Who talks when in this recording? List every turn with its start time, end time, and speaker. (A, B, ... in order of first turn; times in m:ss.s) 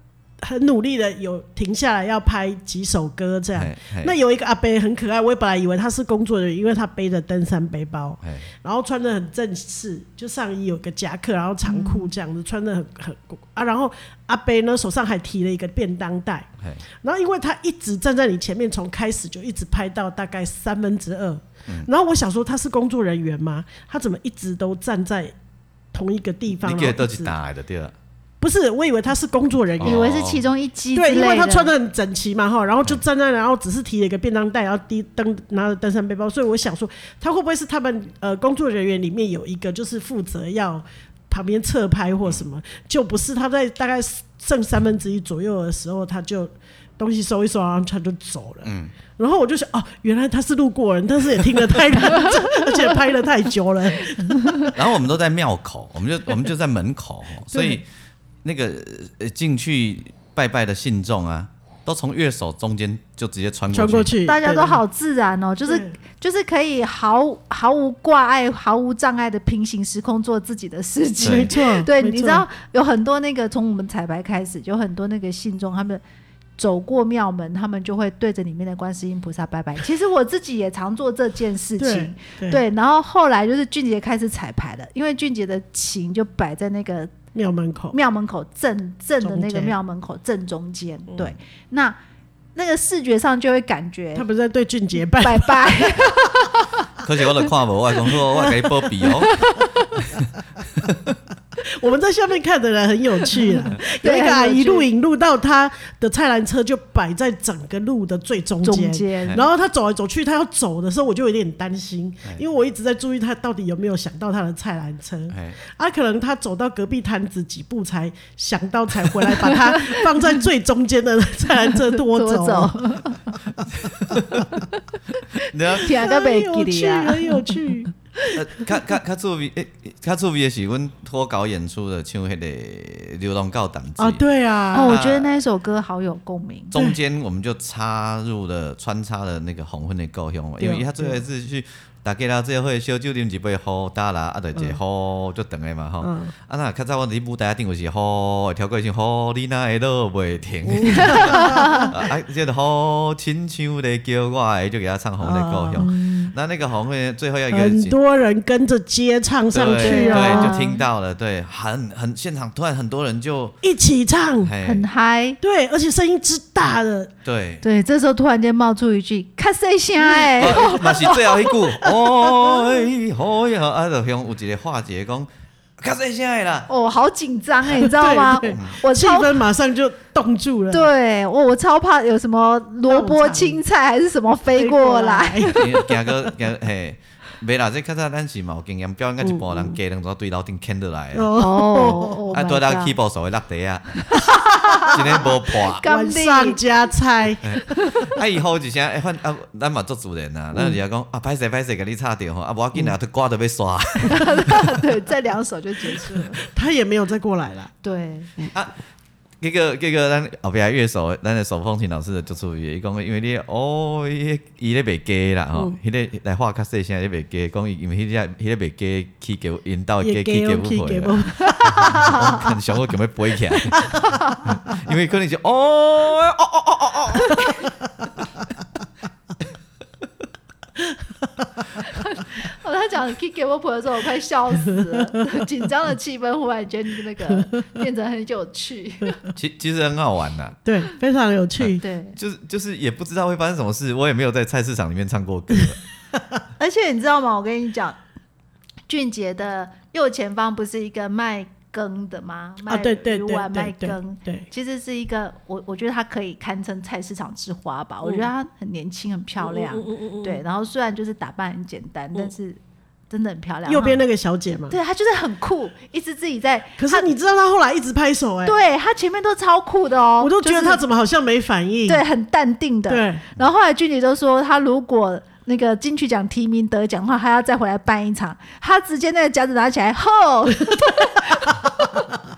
0:00.4-0:16.5 A
0:03.5-0:04.2 B
0:08.2-0:08.5 B
0:11.6-0:12.1 C
0:17.0-0:25.3 A
0:25.9-0:27.3 A
0:26.6-0:27.9 B
0:28.4-0:30.0 A
0:29.8-0:30.4 B
0:29.8-0:31.7 C
0:30.9-0:54.7 A
0:48.6-0:48.9 B
0:52.2-0:52.8 C
0:54.0-0:54.7 C
0:54.7-0:57.9 B
0:57.5-0:57.8 A
0:58.4-1:04.1 B
1:03.7-1:04.8 A
1:04.2-1:16.0 C
1:11.2-1:11.6 B
1:11.2-1:12.4 A
1:16.6-1:27.1 C
1:21.8-1:22.6 A
1:27.3-1:28.0 A
1:27.9-1:32.0 C
1:29.2-1:29.7 A
1:32.5-1:34.3 C
1:34.1-1:36.2 A
1:35.2-1:36.7 C
1:37.0-1:39.4 B
1:38.3-1:39.2 A
1:39.2-1:40.0 C
1:40.0-1:41.2 B
1:41.6-2:02.8 A
1:43.3-1:44.9 C
1:48.6-1:49.4 C
1:55.3-1:55.6 B
1:59.4-2:00.0 C
2:01.8-2:03.4 C
2:03.7-2:04.4 B
2:04.5-2:08.4 C
2:05.4-2:06.0 B
2:05.8-2:07.9 A
2:08.3-2:14.2 B
2:14.0-2:15.0 A
2:14.7-2:16.7 C
2:14.8-2:15.4 B
2:16.7-2:37.9 B
2:20.6-2:21.2 A
2:26.0-2:26.3 A
2:30.7-2:31.9 A
2:30.9-2:31.9 C
2:35.2-2:35.9 A
2:35.8-2:36.3 C
2:37.5-2:40.6 A
2:39.5-2:43.6 B
2:39.8-2:40.8 C
2:43.6-2:44.5 A
2:44.4-2:44.8 B
2:44.6-2:45.4 C
2:45.4-2:47.1 A
2:47.2-2:47.6 B
2:47.6-2:51.3 C
2:50.1-2:50.9 A
2:50.4-2:56.7 B
2:51.8-2:52.7 A
2:56.7-2:59.4 C
2:57.8-3:00.9 A
2:58.5-2:58.7 B
3:00.7-3:05.8 C
3:02.9-3:03.6 A
3:04.6-3:05.7 A
3:05.5-3:11.3 B
3:09.2-3:09.8 A
3:11.1-3:12.2 A
3:11.3-3:12.9 C
3:12.3-3:14.1 B
3:14.0-3:16.6 C
3:14.4-3:17.4 A
3:14.9-3:15.8 B
3:17.4-3:24.8 B
3:17.6-3:18.2 C
3:24.1-3:26.4 C
3:26.2-3:27.7 A
3:27.8-3:28.3 C
3:29.4-3:47.4 B
3:40.0-3:42.3 A
3:41.9-3:42.3 C
3:44.0-3:44.4 C
3:51.8-3:59.2 C
3:59.4-4:00.6 B
4:00.6-4:01.8 A
4:01.6-4:05.8 B
4:01.8-4:02.2 C
4:06.6-4:08.0 C
4:08.9-4:22.6 C
4:12.7-4:14.5 A
4:19.4-4:20.4 A
4:23.1-4:24.0 C
4:23.7-4:24.8 A
4:24.7-4:27.1 C
4:26.8-4:28.6 A
4:28.4-4:30.8 C
4:30.2-4:32.0 A
4:31.9-4:42.0 C
4:32.9-4:33.2 A